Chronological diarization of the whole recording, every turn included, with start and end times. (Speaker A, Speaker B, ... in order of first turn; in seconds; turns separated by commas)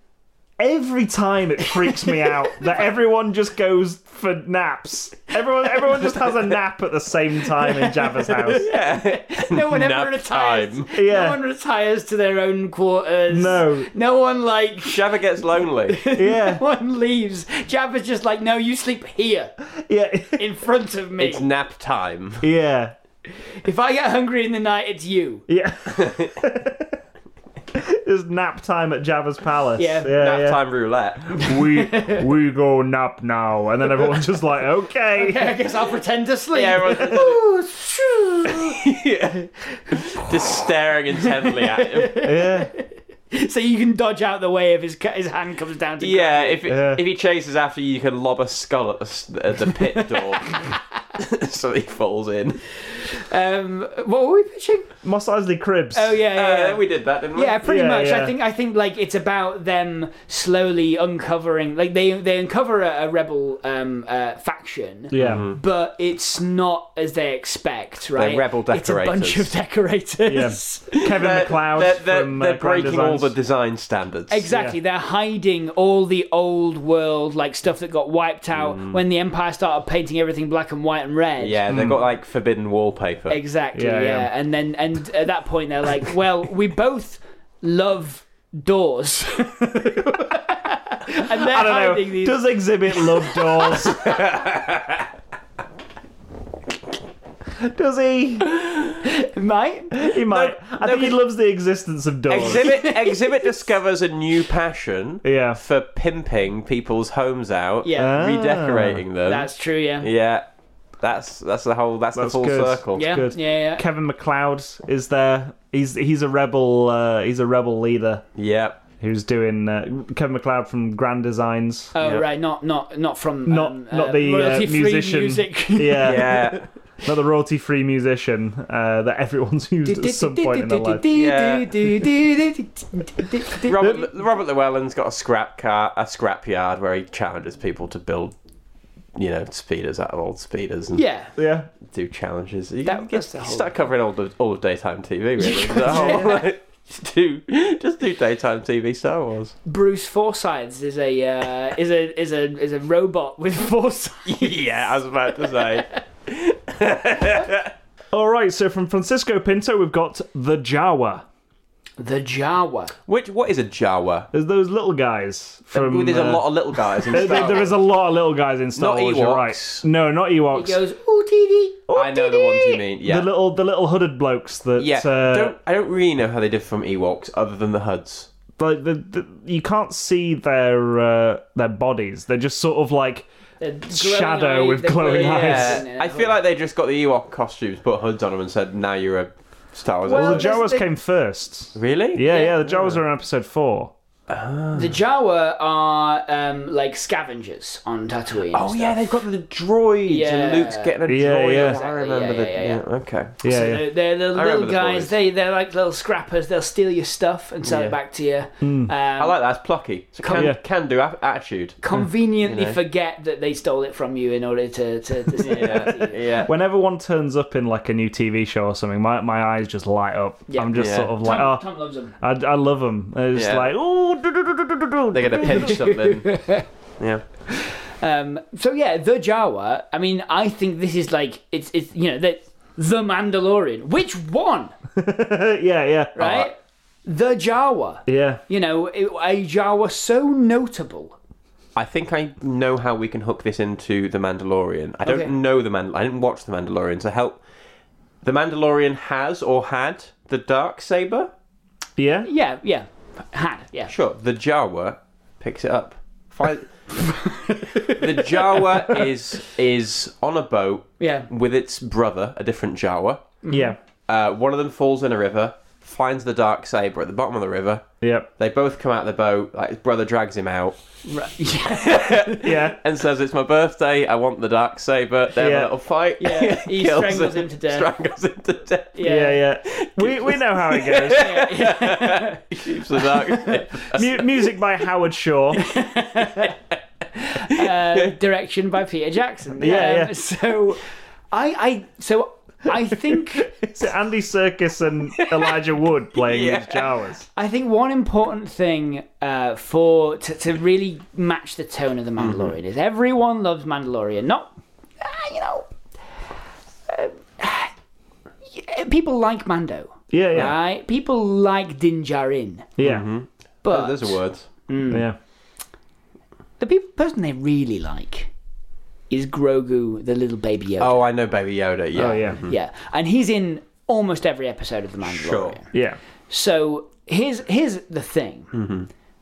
Speaker A: 0.6-8.7, Speaker B: 7.7-15.1, Speaker C: 8.6-10.9, Speaker A: 10.9-11.4, Speaker A: 13.3-13.9, Speaker C: 14.8-16.0, Speaker B: 15.9-19.5, Speaker A: 16.1-16.6, Speaker A: 19.8-20.4, Speaker B: 20.4-21.4, Speaker C: 21.2-22.4, Speaker A: 22.4-22.9, Speaker B: 23.4-25.4, Speaker A: 25.5-27.0, Speaker C: 25.9-26.4, Speaker A: 27.7-30.6, Speaker B: 29.8-30.2, Speaker C: 30.1-31.4, Speaker A: 31.3-35.5, Speaker B: 31.4-32.2, Speaker B: 35.1-38.8, Speaker C: 36.5-37.4, Speaker C: 38.4-42.2, Speaker B: 41.4-46.6, Speaker A: 42.2-42.7, Speaker C: 46.0-52.6, Speaker A: 46.6-47.0, Speaker B: 49.7-50.8, Speaker B: 53.0-54.9, Speaker A: 55.0-56.2, Speaker B: 55.9-71.0, Speaker C: 56.3-57.6, Speaker A: 57.6-58.3, Speaker A: 65.1-65.5, Speaker C: 65.1-65.6, Speaker C: 68.2-69.5, Speaker A: 70.3-73.3, Speaker C: 71.0-74.5, Speaker B: 74.3-81.6, Speaker A: 74.5-74.8, Speaker C: 78.5-79.0, Speaker C: 81.4-83.4, Speaker A: 81.7-82.0, Speaker B: 83.3-94.2, Speaker A: 83.7-84.3, Speaker A: 91.2-94.1, Speaker C: 93.9-95.0, Speaker A: 97.6-98.5, Speaker B: 99.0-100.0, Speaker A: 99.9-102.7, Speaker C: 100.2-101.2, Speaker C: 102.3-110.4, Speaker B: 102.4-103.5, Speaker A: 105.2-105.6, Speaker B: 107.8-108.2, Speaker A: 108.0-109.0, Speaker B: 109.2-110.1, Speaker C: 111.0-113.1, Speaker A: 112.1-118.2, Speaker B: 112.9-113.8, Speaker C: 118.3-118.8, Speaker A: 119.0-121.9, Speaker B: 121.9-126.6, Speaker A: 123.5-131.0, Speaker C: 126.0-126.7, Speaker B: 129.8-134.1, Speaker C: 131.1-131.9, Speaker C: 133.6-138.3, Speaker C: 139.2-141.0, Speaker B: 140.9-141.3, Speaker A: 141.4-141.7, Speaker C: 141.9-149.5, Speaker B: 142.8-143.7, Speaker B: 145.4-146.4, Speaker A: 145.9-146.4, Speaker B: 149.6-155.8, Speaker C: 154.2-157.7, Speaker A: 158.1-161.2, Speaker B: 162.0-162.9, Speaker C: 163.1-164.3, Speaker A: 164.3-166.4, Speaker C: 165.7-167.8, Speaker A: 167.1-170.8, Speaker B: 167.1-167.6, Speaker C: 168.8-169.8, Speaker B: 170.5-171.8, Speaker A: 171.9-175.6, Speaker C: 171.9-173.3, Speaker C: 174.8-178.3, Speaker A: 178.6-183.2, Speaker B: 183.6-186.3, Speaker A: 183.9-185.8, Speaker C: 185.2-190.5, Speaker B: 190.0-190.9, Speaker A: 190.1-193.9, Speaker C: 191.7-193.0, Speaker B: 192.3-192.5, Speaker C: 194.3-195.0, Speaker B: 194.7-199.0, Speaker C: 198.5-203.4, Speaker B: 200.1-200.9, Speaker A: 201.1-201.8, Speaker B: 201.5-202.8, Speaker A: 203.4-203.8, Speaker B: 203.4-209.4, Speaker C: 204.3-205.1, Speaker C: 207.7-207.9, Speaker A: 208.6-208.9, Speaker C: 209.2-211.8, Speaker B: 210.2-210.5, Speaker B: 211.8-216.2, Speaker C: 212.4-212.8, Speaker C: 215.4-216.5, Speaker A: 215.6-221.6, Speaker B: 220.5-222.2, Speaker C: 220.7-221.2, Speaker A: 222.2-225.8, Speaker C: 223.3-223.7, Speaker C: 225.1-226.4, Speaker B: 225.5-226.7, Speaker B: 227.5-234.7, Speaker A: 234.9-236.3, Speaker B: 236.2-236.5, Speaker C: 236.2-236.5, Speaker B: 237.1-241.2, Speaker A: 238.1-238.4, Speaker C: 241.8-247.4, Speaker B: 245.0-245.3, Speaker C: 248.2-251.3, Speaker A: 252.0-252.3, Speaker B: 252.2-253.9, Speaker C: 253.9-256.7, Speaker B: 257.0-259.0, Speaker C: 257.9-263.2, Speaker B: 261.0-261.3, Speaker B: 263.4-263.7, Speaker A: 263.5-263.8, Speaker C: 264.1-267.8, Speaker A: 268.0-268.3, Speaker C: 268.4-270.8, Speaker B: 271.1-272.4, Speaker C: 271.6-279.0, Speaker A: 272.4-272.8, Speaker A: 275.4-275.7, Speaker B: 276.2-277.9, Speaker B: 278.9-279.4, Speaker A: 279.0-281.3, Speaker C: 279.6-284.2, Speaker B: 281.1-283.6, Speaker A: 283.9-285.7, Speaker B: 285.5-286.6, Speaker B: 287.1-293.5, Speaker C: 287.5-288.1, Speaker A: 289.6-290.1, Speaker A: 293.3-297.2, Speaker C: 295.2-295.6, Speaker C: 296.2-297.0, Speaker B: 297.3-305.7, Speaker C: 302.2-302.5, Speaker B: 306.9-307.7, Speaker B: 308.5-312.7, Speaker A: 310.1-310.6, Speaker A: 312.8-313.1, Speaker C: 312.8-314.5, Speaker B: 313.6-315.1, Speaker A: 314.9-315.1, Speaker B: 316.6-318.3, Speaker B: 319.1-321.1, Speaker C: 320.8-322.6, Speaker A: 321.9-322.4, Speaker B: 322.0-325.7, Speaker C: 325.1-325.6, Speaker A: 325.7-326.0, Speaker B: 326.3-328.5, Speaker C: 328.5-328.9